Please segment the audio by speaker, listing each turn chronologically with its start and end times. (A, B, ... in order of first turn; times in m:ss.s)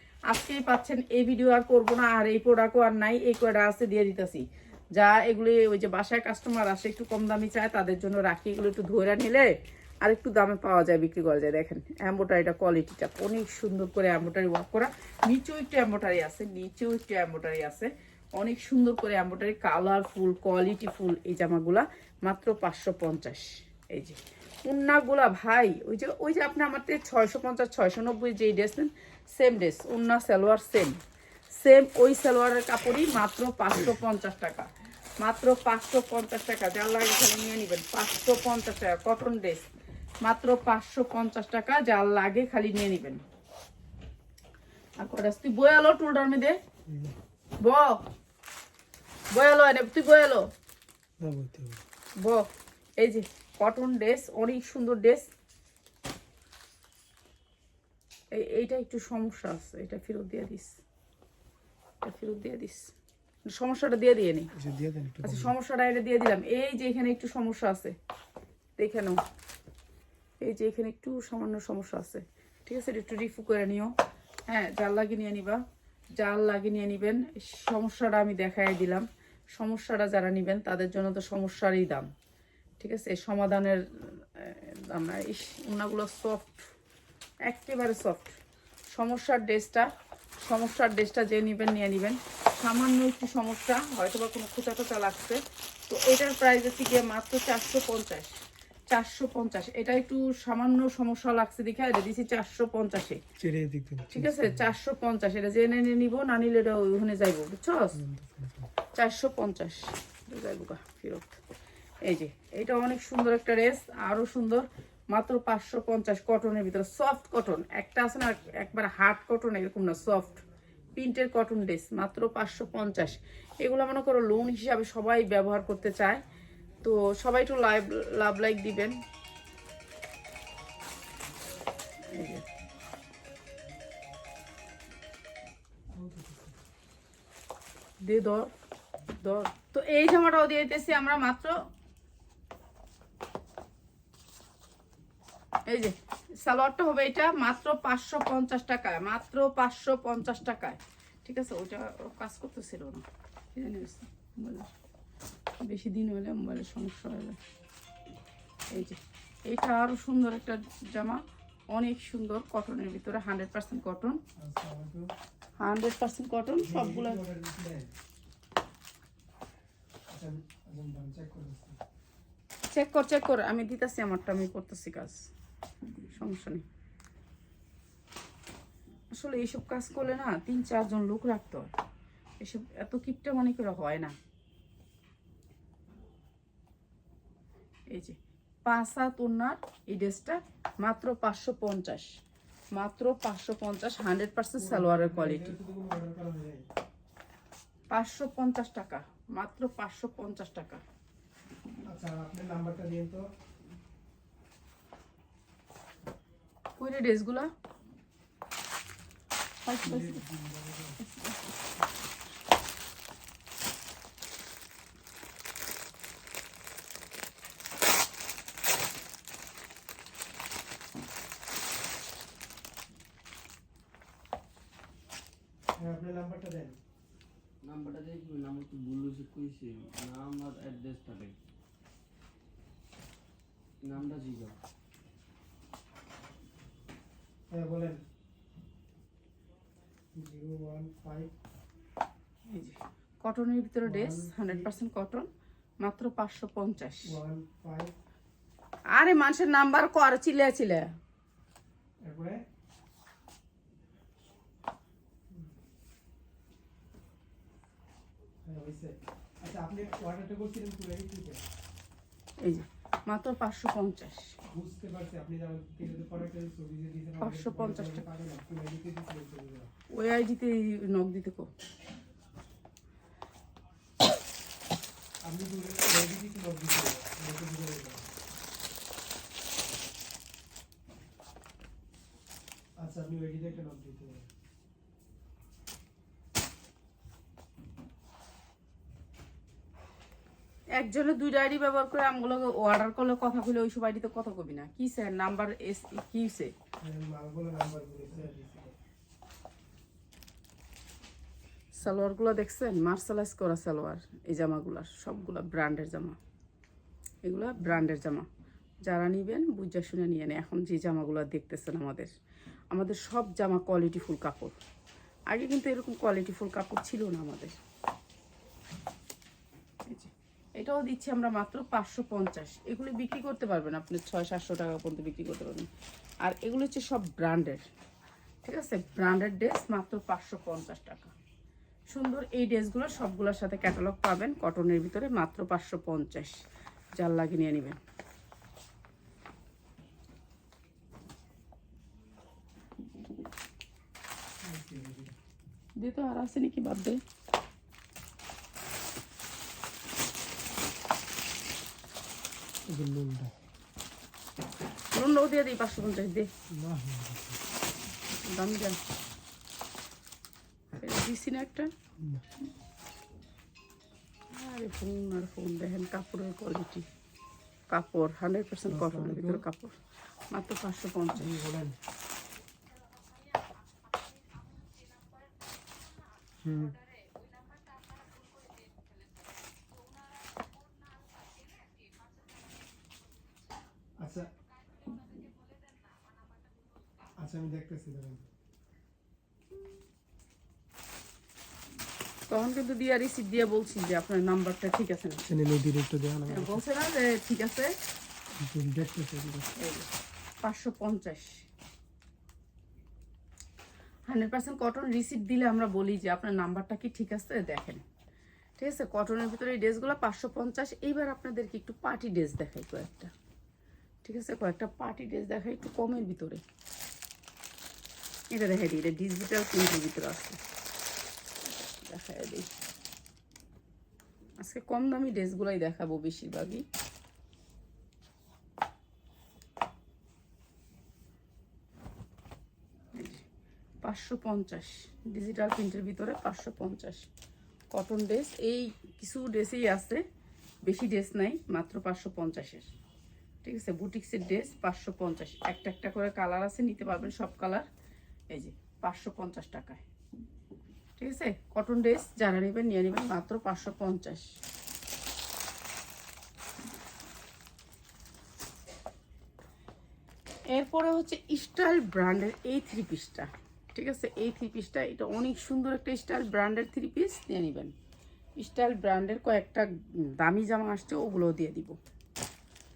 0:00.3-0:31.0 A
0:31.5-0:34.7 A
0:35.2-0:39.7 A
0:40.2-0:43.2 A
0:45.0-0:46.6 A
0:46.9-0:47.2 B
0:47.6-0:48.0 A
0:49.3-0:50.4 A
0:51.2-0:51.8 B
0:52.2-0:52.4 A
0:53.0-0:55.3 A
0:58.3-1:00.8 A
1:02.0-1:02.9 A
1:03.5-1:04.5 A
1:04.5-1:05.6 B
1:05.2-1:07.9 A
1:08.8-1:09.2 A
1:10.4-1:13.9 A
1:14.5-1:15.6 A
1:16.2-1:22.1 A
1:22.8-1:26.7 A
1:27.5-1:28.4 A
1:28.9-1:29.9 A
1:30.4-1:38.4 A
1:38.9-1:43.2 A
1:43.4-1:44.7 B
1:44.1-1:48.0 A
1:47.9-1:48.7 B
1:48.9-1:51.4 A
1:52.0-2:00.4 A
2:01.0-2:06.2 A
2:06.8-2:09.0 A
2:12.1-2:12.4 A
2:15.9-2:16.6 B
2:18.0-2:18.5 A
2:19.2-2:21.6 A
2:25.7-2:33.0 A
2:33.5-2:34.7 A
2:35.6-2:37.4 A
2:38.7-2:44.2 A
2:44.4-2:45.1 B
2:45.6-2:47.2 A
2:46.6-2:47.9 B
2:50.1-2:51.8 B
2:52.7-2:55.3 A
2:56.1-2:56.6 A
2:59.1-3:01.7 A
3:02.4-3:04.1 A
3:07.9-3:12.2 A
3:12.7-3:15.5 A
3:14.6-3:16.6 B
3:17.9-3:20.8 A
3:21.9-3:23.2 B
3:26.8-3:27.5 A
3:29.6-3:30.2 A
3:29.8-3:31.0 B
3:31.0-3:31.3 A
3:45.8-3:46.8 B
3:47.6-3:51.3 C
3:53.8-3:54.6 C
3:57.5-3:58.0 B
4:00.2-4:01.3 B
4:02.5-4:05.3 A
4:03.8-4:04.7 B
4:05.8-4:07.1 A
4:07.0-4:07.9 B
4:08.9-4:10.9 A
4:12.0-4:12.4 B
4:18.4-4:21.4 B
4:22.4-4:24.4 A
4:24.5-4:29.7 B
4:27.2-4:28.0 A
4:29.9-4:31.5 A
4:35.2-4:38.1 B
4:42.8-4:44.2 B
4:50.8-4:56.5 A
4:56.8-4:58.8 B
5:01.8-5:06.2 A
5:07.2-5:08.3 A
5:08.8-5:12.1 A
5:12.7-5:14.5 A
5:15.3-5:17.6 A
5:19.9-5:25.7 A
5:26.2-5:27.6 A
5:28.4-5:31.1 A
5:31.9-5:36.3 A
5:37.0-5:37.8 A
5:44.4-5:45.2 B
5:45.8-5:47.0 A
5:52.7-5:53.3 B
5:54.9-5:56.3 A
5:56.5-5:57.4 B
5:58.2-5:58.8 A
6:00.8-6:01.7 A
6:04.3-6:06.9 A
6:07.7-6:09.8 A
6:08.7-6:09.4 B
6:10.3-6:11.3 A
6:11.1-6:11.8 B
6:16.4-6:16.8 B
6:24.0-6:24.3 B
6:27.2-6:28.3 B
6:32.3-6:35.2 A
6:35.2-6:36.6 B
6:36.3-6:37.8 A
6:38.4-6:39.5 B
6:39.6-6:39.9 A
6:40.4-6:41.4 A
6:44.1-6:47.8 A
6:48.6-6:53.1 A
6:54.0-6:56.4 A
6:58.3-7:00.4 A
7:01.9-7:02.5 A
7:04.4-7:06.6 A
7:12.9-7:13.2 A
7:13.8-7:17.1 A
7:17.7-7:20.0 A
7:20.6-7:22.7 A
7:23.4-7:27.7 A
7:28.3-7:29.8 A
7:31.0-7:34.3 A
7:40.5-7:47.7 A
7:48.4-7:49.7 A
7:50.2-7:51.8 A